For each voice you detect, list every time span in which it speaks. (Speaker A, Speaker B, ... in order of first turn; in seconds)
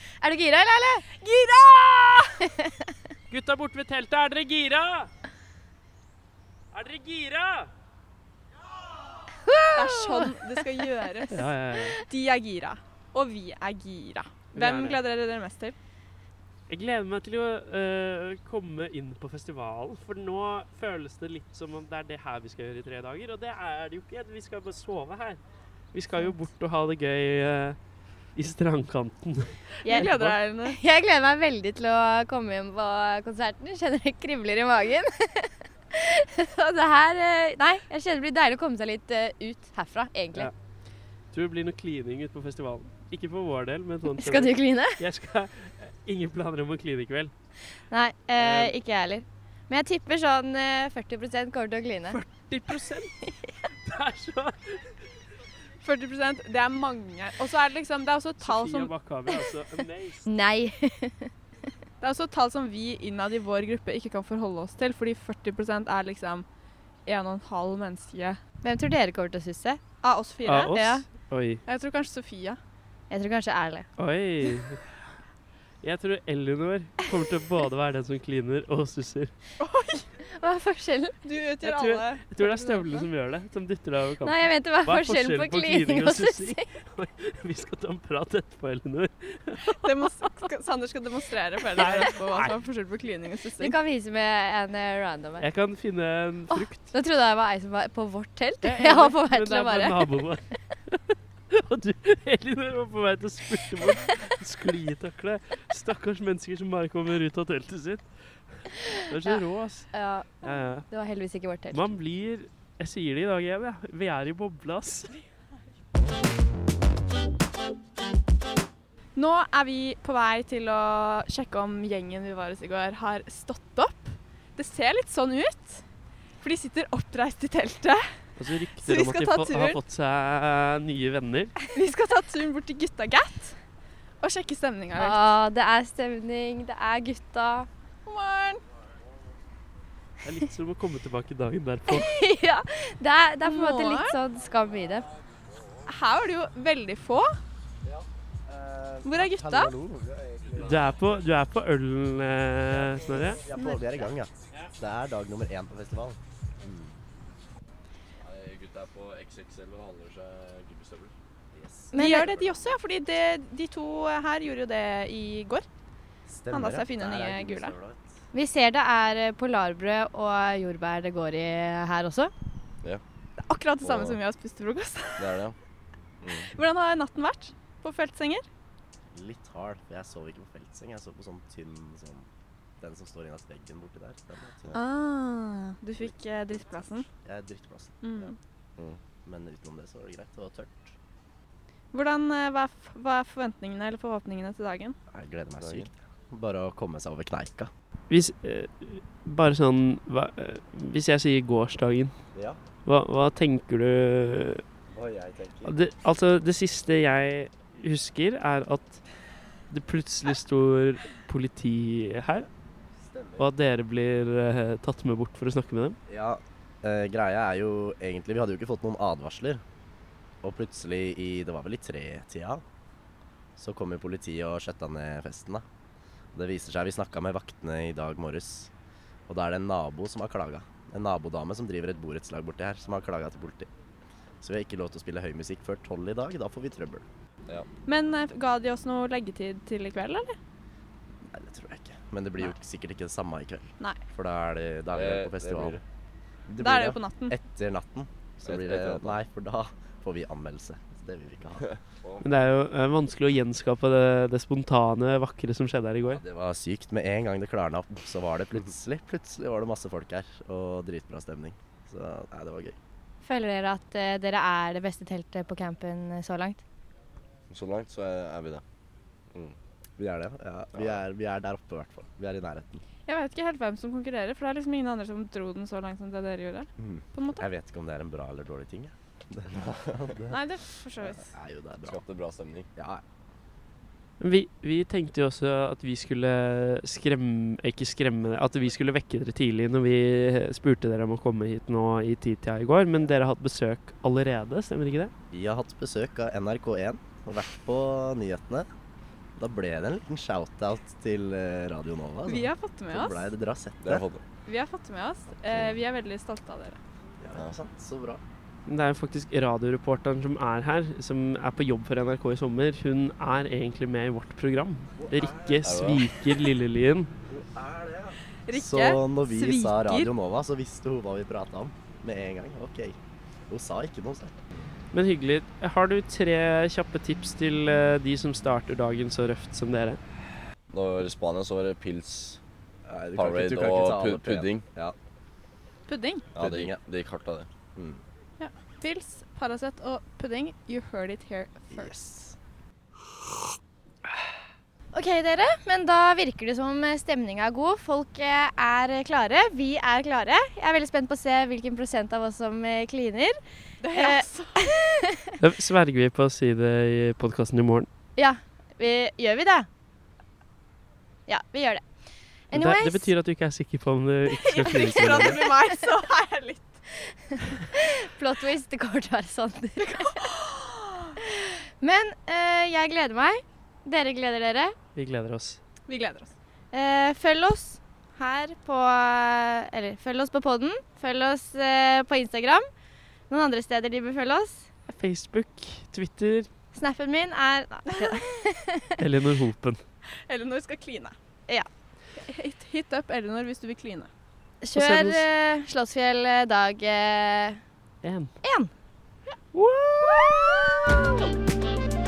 Speaker A: 0.2-1.2, 9.4-10.6, 29.8-30.1, 30.6-40.5, 44.1-45.0, 47.9-52.2, 60.2-61.3, 68.6-69.8, 70.6-71.0, 73.1-73.9, 80.3-81.2, 84.2-86.6, 93.6-95.4, 96.5-100.1, 109.2-111.9, 134.9-137.7, 141.9-145.1, 161.9-162.3, 168.3-172.3, 263.2-266.6, 344.9-355.3, 358.2-359.7, 361.3-361.8, 362.5-363.1, 364.5-365.9, 367.3-370.3, 371.2-374.7, 376.7-382.7, 383.3-384.7, 386.7-388.9, 394.6-397.6, 398.4-398.7
Speaker B: 1.1-2.4, 9.7-11.4, 11.9-15.8, 29.8-30.8, 55.8-58.9, 62.0-66.5, 67.0-68.4, 70.0-71.0, 71.6-72.6, 79.6-80.0, 81.2-83.1, 89.6-93.8, 119.2-125.8, 126.4-128.0, 128.7-129.8, 131.7-133.6, 134.2-135.3, 138.0-138.6, 143.4-144.2, 145.9-147.3, 149.0-149.7, 153.5-154.1, 161.9-165.7, 166.5-167.7, 173.4-175.3, 176.5-178.4, 184.7-187.1, 188.0-188.4, 191.9-194.9, 237.8-240.3, 246.6-247.3, 273.1-277.4, 280.3-281.3, 302.2-303.3, 304.4-306.8, 318.5-320.1, 335.9-336.3, 338.4-341.9, 353.8-354.7, 364.3-366.8, 369.8-371.1, 375.9-376.3, 387.9-388.2, 390.3-391.1, 392.2-394.1
Speaker C: 3.3-5.1, 6.7-7.7, 11.3-12.0, 14.5-15.0, 16.7-25.4, 25.9-27.8, 28.3-30.4, 41.3-47.3, 48.4-48.7, 52.1-53.2, 53.8-54.9, 58.4-60.3, 70.4-71.6, 74.0-74.9, 75.8-79.3, 81.6-89.7, 91.8-92.6, 95.4-96.8, 98.6-108.1, 108.8-109.9, 110.4-110.8, 111.7-115.2, 128.4-131.6, 140.2-142.1, 150.6-153.4, 198.1-202.1, 202.8-204.6, 205.6-209.0, 209.7-212.5, 213.4-216.0, 252.2-256.2, 284.2-295.1, 308.7-317.1, 324.9-330.0, 355.4-357.9, 362.5-365.4, 374.9-375.6, 384.9-386.5, 389.0-389.8, 394.7-395.2, 398.0-398.3, 399.5-400.5
Speaker D: 147.8-150.8, 153.4-156.9, 161.5-162.7, 166.3-168.2, 179.1-182.3, 182.8-184.8, 187.0-188.3, 189.2-190.9, 195.1-197.7, 204.9-205.7, 213.0-213.4, 216.1-219.6, 220.4-222.6, 223.6-225.6, 226.3-228.7, 229.3-233.7, 234.4-237.0, 241.2-245.8, 246.5-251.7, 256.1-262.8, 270.0-272.8, 276.8-280.4, 281.0-282.0, 282.7-283.0, 295.3-298.7, 299.4-304.1, 305.5-305.8, 307.2-308.2, 315.0-315.7, 317.3-322.9, 323.5-324.4, 332.9-334.9, 336.4-336.8, 337.7-338.0, 341.7-342.4
Speaker E: 158.2-161.1, 173.8-174.2, 175.2-175.6, 176.2-176.5, 195.6-195.9, 244.9-245.8, 248.4-249.2, 251.6-252.3, 267.5-268.6, 270.8-271.0, 281.8-282.7, 303.8-304.2, 315.6-316.1, 330.7-332.4, 333.1-334.6, 336.3-337.5